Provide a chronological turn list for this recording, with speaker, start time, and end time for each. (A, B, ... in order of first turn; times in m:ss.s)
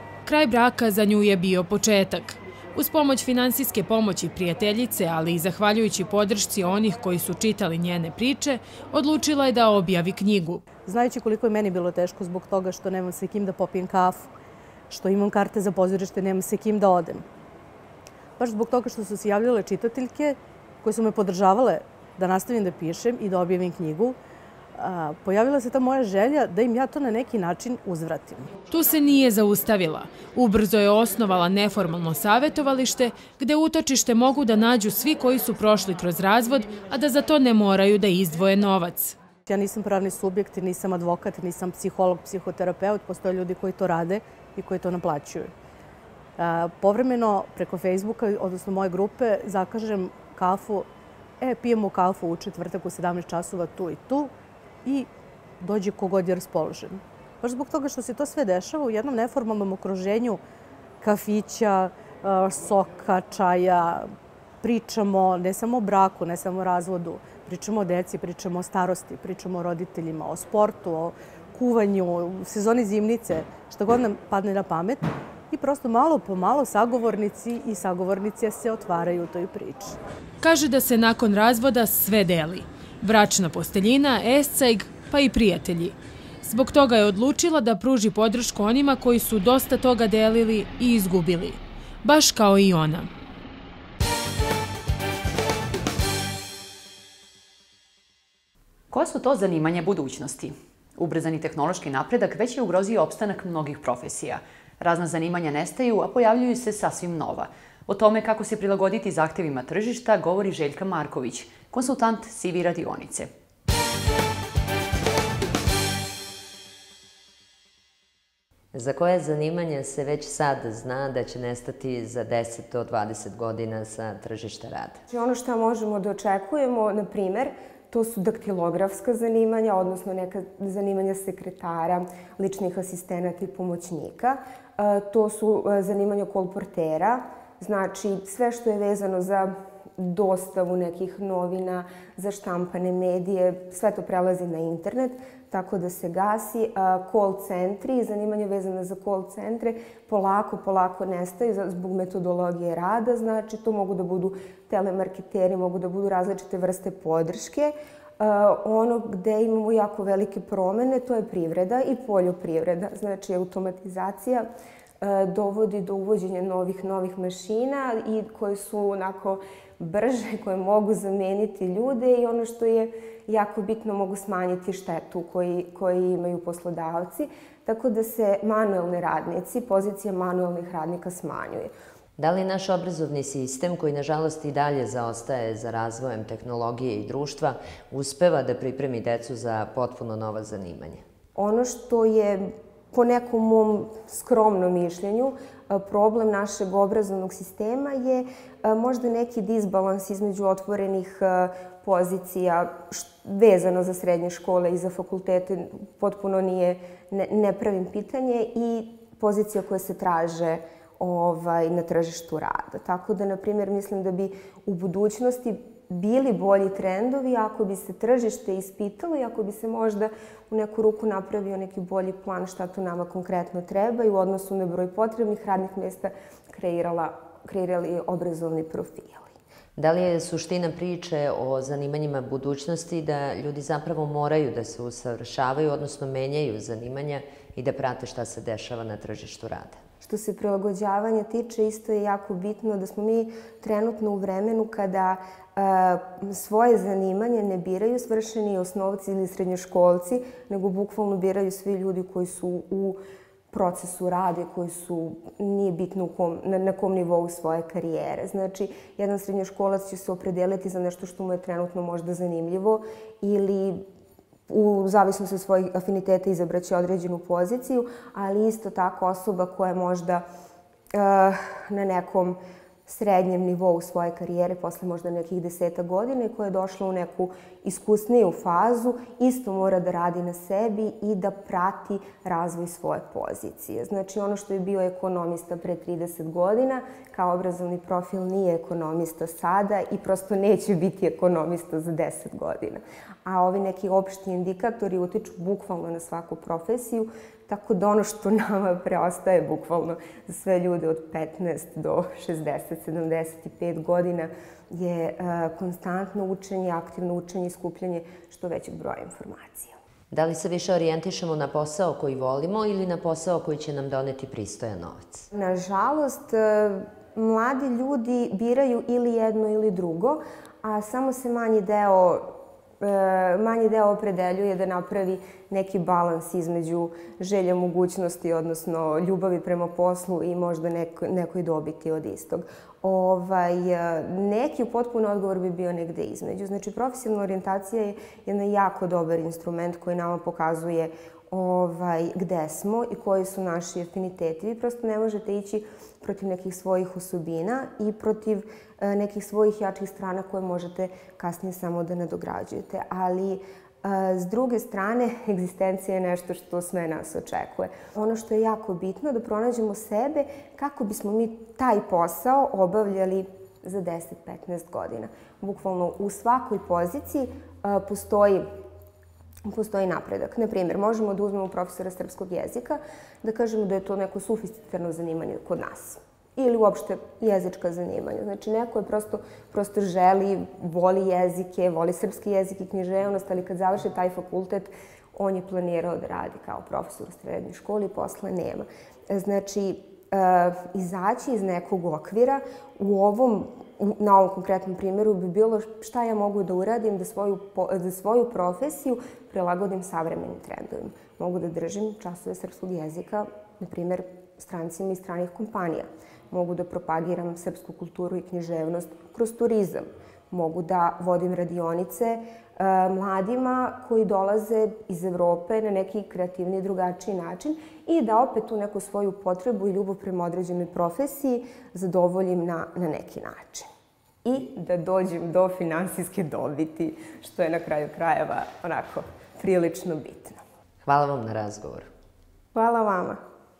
0:00.2-0:10.7 A
0:10.8-0:14.3 B
0:14.9-0:17.2 B
0:18.4-0:24.2 B
0:24.8-0:28.6 B
0:28.6-0:39.2 A
0:39.5-0:45.5 B
0:46.4-0:50.9 B
0:51.4-0:54.3 B
0:55.6-1:00.4 B
1:01.0-1:20.0 B
1:20.4-1:33.1 A
1:38.9-1:53.3 C
1:58.7-2:05.0 D
2:05.1-2:44.5 E
2:45.0-3:01.7 E
3:02.2-3:11.0 D
3:11.4-3:49.3 E
3:49.8-3:59.8 D
4:00.0-4:13.0 E
4:13.5-4:23.8 E
4:24.5-4:30.2 E
4:30.9-5:09.7 E
5:10.1-5:15.3 D
5:15.3-6:08.5 E
6:09.5-7:03.7 E
7:04.2-7:10.4 E
7:10.8-7:11.9 D
7:12.6-7:13.2 E